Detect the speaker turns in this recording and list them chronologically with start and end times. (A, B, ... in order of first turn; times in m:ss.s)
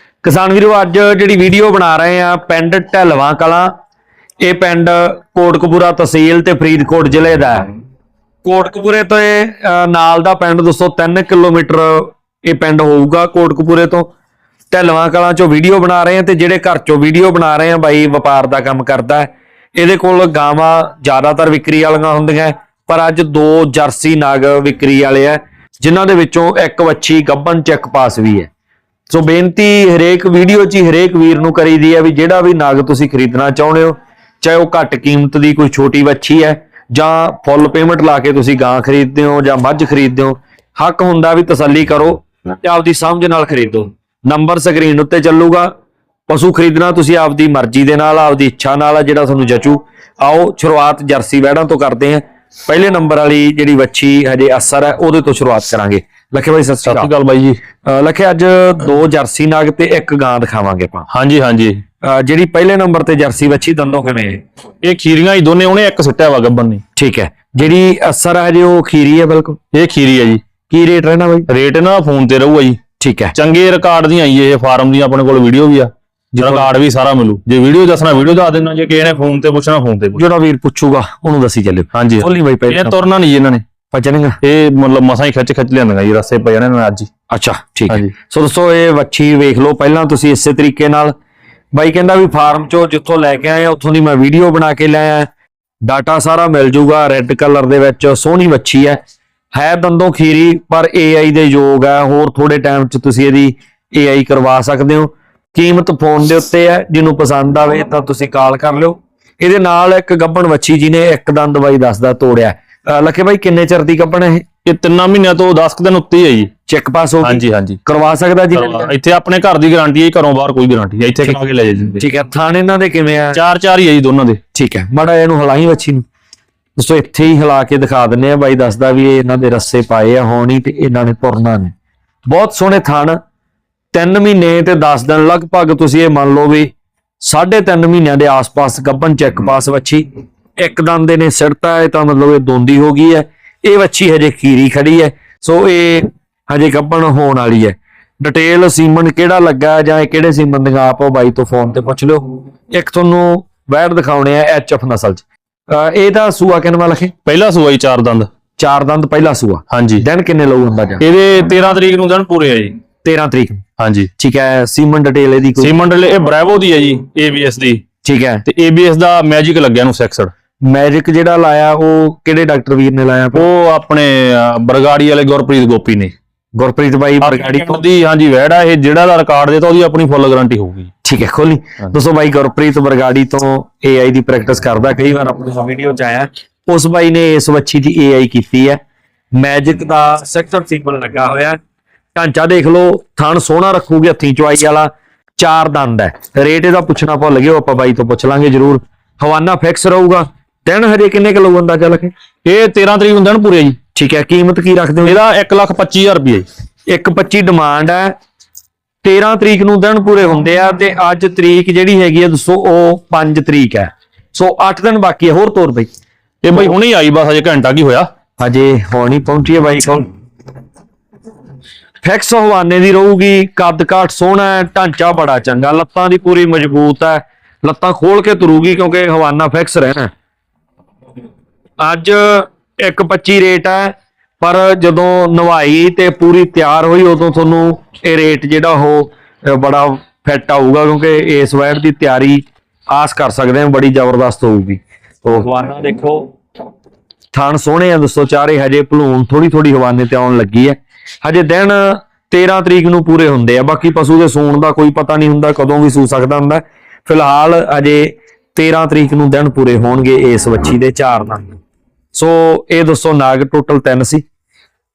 0:00.2-0:03.7 A
0:04.4-0:07.7 A
0:08.4-0:14.1 A
0:14.7-0:28.5 A
0:29.1-0:45.7 A
0:46.3-0:57.1 A
0:56.8-0:57.6 B
0:57.8-1:01.1 A
1:01.1-1:01.8 B
1:02.0-1:04.4 A
1:04.8-1:06.8 B
1:07.0-1:09.6 A
1:09.7-1:10.4 B
1:10.7-1:11.5 A
1:11.5-1:12.8 B
1:13.0-1:13.3 A
1:13.3-1:20.2 B
1:16.3-1:16.7 A
1:20.2-1:23.0 A
1:21.9-1:23.6 B
1:23.9-1:24.4 A
1:24.4-1:27.1 B
1:27.3-1:31.1 A
1:31.7-1:35.3 A
1:35.8-1:39.0 A
1:39.5-1:54.5 A
1:54.6-1:56.5 B
1:56.7-1:58.9 A
1:57.2-1:57.8 B
1:58.5-2:02.0 B
2:02.0-2:03.4 A
2:03.3-2:04.4 B
2:04.5-2:06.0 A
2:06.8-2:11.7 A
2:12.3-2:13.2 A
2:13.9-2:20.0 A
2:20.6-2:37.1 A
2:37.2-2:38.3 B
2:38.6-2:41.0 A
2:39.7-2:40.0 B
2:41.0-2:42.8 B
2:43.0-2:43.6 A
2:43.8-2:44.1 B
2:44.2-2:45.7 A
2:45.6-2:47.8 B
2:48.0-2:48.4 A
2:48.4-2:50.3 B
2:50.6-2:53.5 A
2:53.3-2:56.1 B
2:56.6-2:57.8 A
2:57.2-3:00.9 B
3:01.0-3:08.8 A
3:09.3-3:11.6 A
3:12.1-3:22.1 A
3:22.4-3:23.8 B
3:23.9-3:25.2 A
3:25.0-3:26.5 B
3:26.9-3:28.2 A
3:29.0-3:35.9 A
3:36.4-3:38.1 B
3:38.4-3:40.1 A
3:42.0-3:50.1 A
3:51.8-4:06.3 A
4:07.3-4:21.6 A
4:22.1-4:24.2 A